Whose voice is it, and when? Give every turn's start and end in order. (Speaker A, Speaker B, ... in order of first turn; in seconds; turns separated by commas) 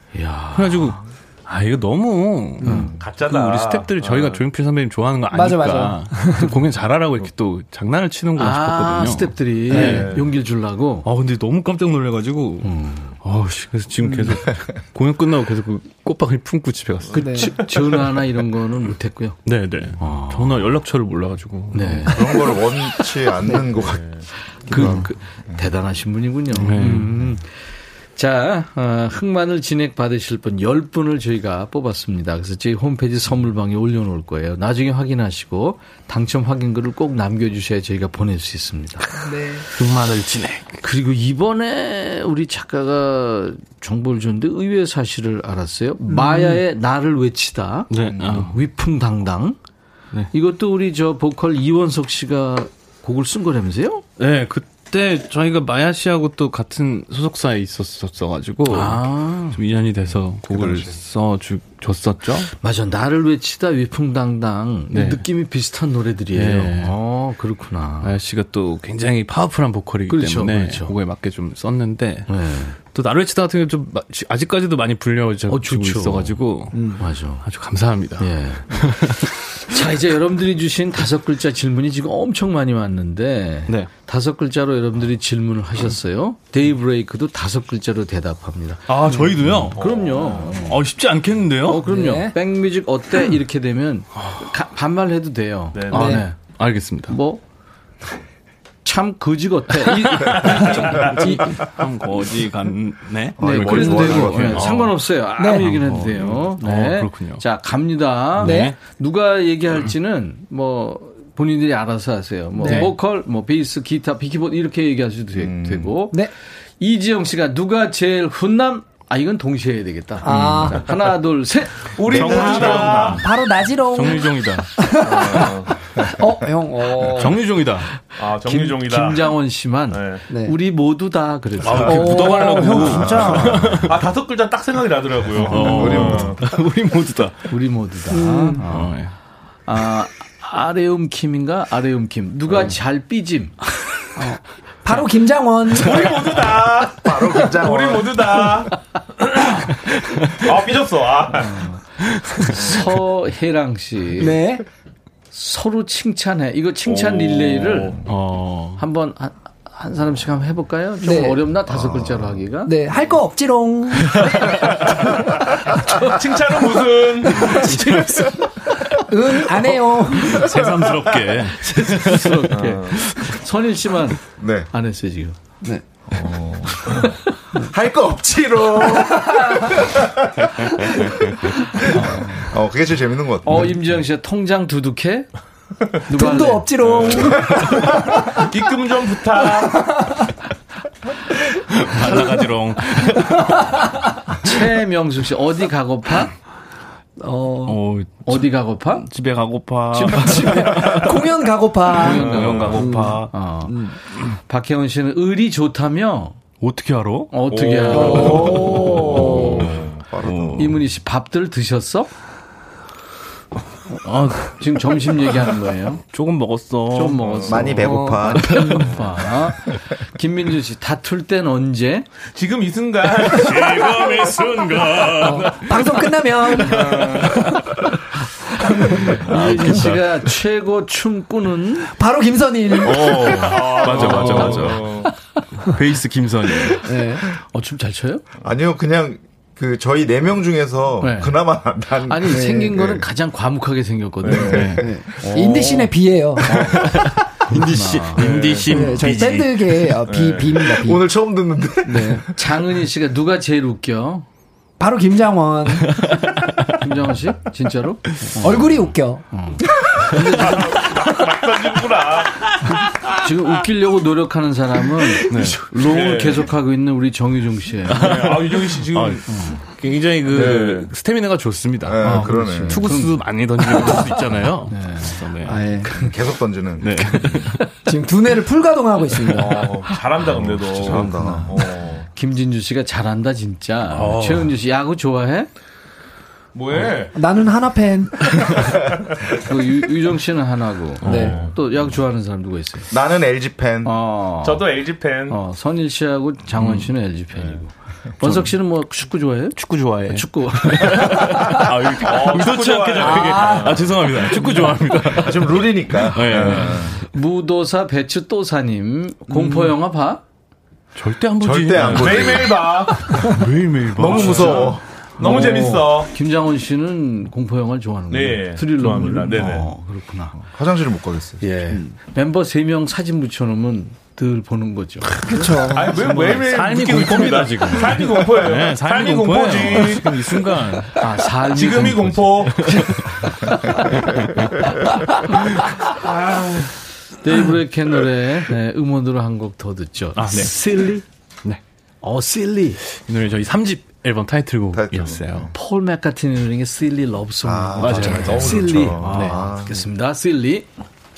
Speaker A: 0.1-1.0, Speaker B: 0.5-10.2, Speaker A: 2.6-2.9, Speaker C: 2.6-2.9, Speaker D: 2.6-3.1, Speaker E: 3.0-4.4, Speaker C: 5.3-6.4, Speaker A: 8.4-11.1, Speaker C: 9.7-10.1, Speaker E: 9.8-10.3, Speaker B: 11.0-17.5, Speaker A: 12.6-13.1, Speaker C: 14.0-14.4, Speaker D: 14.5-14.8, Speaker C: 17.1-17.5, Speaker A: 17.2-19.4, Speaker E: 17.3-17.9, Speaker B: 19.4-22.1, Speaker A: 20.0-20.6, Speaker A: 21.7-22.4, Speaker D: 21.9-25.7, Speaker E: 23.7-24.3, Speaker A: 24.6-27.6, Speaker B: 24.7-25.1, Speaker B: 26.5-27.1, Speaker D: 26.9-27.3, Speaker A: 28.1-39.2, Speaker C: 39.2-39.6, Speaker B: 39.7-40.8, Speaker A: 40.8-49.6, Speaker C: 46.1-46.6, Speaker B: 47.9-48.5, Speaker D: 48.0-48.5, Speaker A: 50.3-54.0, Speaker B: 54.2-62.5, Speaker A: 58.7-59.6, Speaker D: 60.4-61.0, Speaker A: 62.6-68.1, Speaker B: 64.9-65.3, Speaker B: 66.3-67.0, Speaker B: 68.0-79.8, Speaker A: 70.1-70.9, Speaker A: 72.3-72.8, Speaker A: 75.5-77.5, Speaker A: 78.2-90.8, Speaker B: 88.9-89.8, Speaker E: 89.8-90.5, Speaker B: 90.5-92.1, Speaker A: 91.6-96.4, Speaker C: 91.8-92.3, Speaker B: 94.2-94.5, Speaker E: 95.7-96.1, Speaker C: 95.9-96.2, Speaker B: 96.0-97.2, Speaker A: 97.1-97.4, Speaker A: 98.8-101.5, Speaker B: 99.8-107.4, Speaker D: 103.4-104.9, Speaker A: 103.4-123.1, Speaker C: 105.4-105.7, Speaker B: 108.3-108.8, Speaker C: 108.4-108.8, Speaker C: 112.6-112.9, Speaker B: 112.6-112.9, Speaker D: 115.3-116.1, Speaker C: 120.2-120.8, Speaker B: 120.3-120.8, Speaker E: 121.9-123.2, Speaker B: 122.0-124.8, Speaker C: 122.1-127.5, Speaker E: 125.0-125.7, Speaker B: 127.1-128.0, Speaker E: 128.2-129.3, Speaker A: 128.2-132.4, Speaker E: 129.9-130.2, Speaker C: 130.3-130.6, Speaker B: 131.6-134.0, Speaker E: 131.7-131.9, Speaker C: 131.8-133.4, Speaker D: 132.8-133.8, Speaker A: 132.9-133.6, Speaker E: 133.9-136.4, Speaker B: 135.3-137.6, Speaker A: 135.4-136.0, Speaker D: 135.5-136.6, Speaker A: 137.5-139.1, Speaker C: 138.1-138.6, Speaker B: 138.6-139.2, Speaker A: 139.7-143.7, Speaker C: 144.2-146.3, Speaker E: 145.8-148.7, Speaker D: 145.9-148.7, Speaker E: 150.4-151.6, Speaker B: 152.0-152.6, Speaker A: 152.4-154.4, Speaker E: 152.6-152.9, Speaker C: 154.2-154.6, Speaker A: 155.3-158.0, Speaker E: 157.1-157.9, Speaker B: 158.1-158.8, Speaker A: 158.8-162.8, Speaker C: 161.0-161.5, Speaker D: 161.6-162.4, Speaker C: 162.6-164.3, Speaker A: 165.9-166.1, Speaker E: 166.0-167.8, Speaker A: 167.4-167.9, Speaker B: 167.5-168.4, Speaker C: 169.1-170.4, Speaker B: 169.6-173.4, Speaker D: 170.4-171.3, Speaker A: 171.6-175.4, Speaker E: 172.5-173.0, Speaker D: 174.4-174.7, Speaker D: 176.1-176.9, Speaker D: 177.6-180.1, Speaker D: 180.9-181.3, Speaker D: 181.9-184.0, Speaker A: 181.9-182.4, Speaker A: 183.4-185.3, Speaker A: 186.0-187.0, Speaker C: 186.1-188.3, Speaker E: 186.8-187.3, Speaker D: 187.3-187.7, Speaker E: 188.3-189.9, Speaker B: 191.7-193.8, Speaker A: 194.4-196.3, Speaker C: 197.2-197.8, Speaker B: 197.6-201.2, Speaker A: 198.2-199.1, Speaker A: 199.9-200.8, Speaker C: 200.1-204.0, Speaker B: 201.9-203.3, Speaker E: 202.0-203.1, Speaker A: 202.3-206.4, Speaker B: 206.6-207.5, Speaker A: 207.3-209.7, Speaker E: 207.5-210.3, Speaker C: 207.9-209.2, Speaker B: 208.4-209.0, Speaker D: 208.9-210.9, Speaker A: 210.6-212.1, Speaker A: 214.1-216.0, Speaker B: 214.1-214.4, Speaker B: 216.1-217.3, Speaker A: 216.9-222.1, Speaker E: 217.2-217.6, Speaker D: 217.4-218.8, Speaker C: 217.8-218.8, Speaker E: 222.3-224.1, Speaker B: 223.2-227.5, Speaker C: 225.2-227.2, Speaker E: 226.6-227.4, Speaker C: 228.7-229.0, Speaker B: 228.8-230.3, Speaker A: 228.8-231.9, Speaker C: 231.9-233.6, Speaker B: 232.8-235.0, Speaker E: 233.4-235.1, Speaker A: 233.6-235.1, Speaker B: 235.6-236.9, Speaker C: 236.8-237.2, Speaker A: 237.3-238.2, Speaker D: 238.4-243.1, Speaker A: 241.0-245.7, Speaker C: 242.3-242.8, Speaker D: 244.3-245.1, Speaker B: 244.4-244.9, Speaker C: 244.8-246.5, Speaker E: 245.3-245.8, Speaker D: 246.5-246.9, Speaker B: 246.6-249.9, Speaker A: 247.5-248.3, Speaker E: 248.2-248.7, Speaker C: 248.6-251.1, Speaker E: 250.1-250.5, Speaker D: 250.5-252.3, Speaker C: 251.9-252.2, Speaker A: 251.9-254.2, Speaker C: 254.8-256.1, Speaker B: 255.9-256.7, Speaker A: 256.8-260.8, Speaker C: 258.4-259.2, Speaker E: 260.4-262.4, Speaker B: 262.4-263.1, Speaker A: 262.6-268.1, Speaker B: 265.1-266.0, Speaker E: 265.9-266.4, Speaker B: 267.9-275.6, Speaker E: 268.0-269.2, Speaker A: 269.3-269.6, Speaker E: 270.3-270.9, Speaker D: 271.8-273.1, Speaker A: 272.0-274.0, Speaker A: 274.7-275.3, Speaker C: 275.4-275.9, Speaker D: 275.8-277.6, Speaker B: 276.8-277.8, Speaker A: 277.2-277.6, Speaker C: 277.7-280.0, Speaker E: 279.3-282.0, Speaker D: 280.2-281.7, Speaker A: 280.9-285.5, Speaker B: 283.9-284.5, Speaker E: 286.5-287.1, Speaker C: 287.1-288.5, Speaker A: 289.4-292.9, Speaker C: 291.0-291.4, Speaker B: 291.0-291.4, Speaker E: 291.1-291.5, Speaker D: 292.9-293.9, Speaker A: 293.8-301.4, Speaker E: 294.4-295.4, Speaker B: 296.6-296.9, Speaker B: 298.2-298.6, Speaker B: 299.5-306.9, Speaker E: 302.0-303.9, Speaker C: 303.0-303.8, Speaker A: 304.3-305.3, Speaker D: 305.1-306.9, Speaker E: 306.4-306.6, Speaker A: 306.9-310.2, Speaker B: 309.3-309.8, Speaker B: 310.9-312.3, Speaker D: 311.4-313.2, Speaker E: 311.8-313.1, Speaker B: 313.1-315.7, Speaker D: 313.9-314.8, Speaker E: 314.0-316.1, Speaker A: 314.3-314.6, Speaker A: 315.2-320.4, Speaker E: 318.1-319.7, Speaker B: 319.3-319.6, Speaker D: 320.3-321.8, Speaker A: 321.4-326.3, Speaker C: 325.2-326.1, Speaker B: 325.2-325.8, Speaker E: 325.7-330.4, Speaker B: 326.4-331.0, Speaker A: 331.0-334.2, Speaker E: 331.4-332.6, Speaker B: 332.6-333.1, Speaker B: 333.8-334.5, Speaker A: 334.7-335.6, Speaker B: 335.5-336.6, Speaker A: 337.2-341.0, Speaker B: 340.1-340.9, Speaker A: 342.0-342.8, Speaker B: 343.0-345.5, Speaker D: 344.7-345.5, Speaker A: 345.5-350.7, Speaker D: 347.4-349.9, Speaker B: 347.8-349.4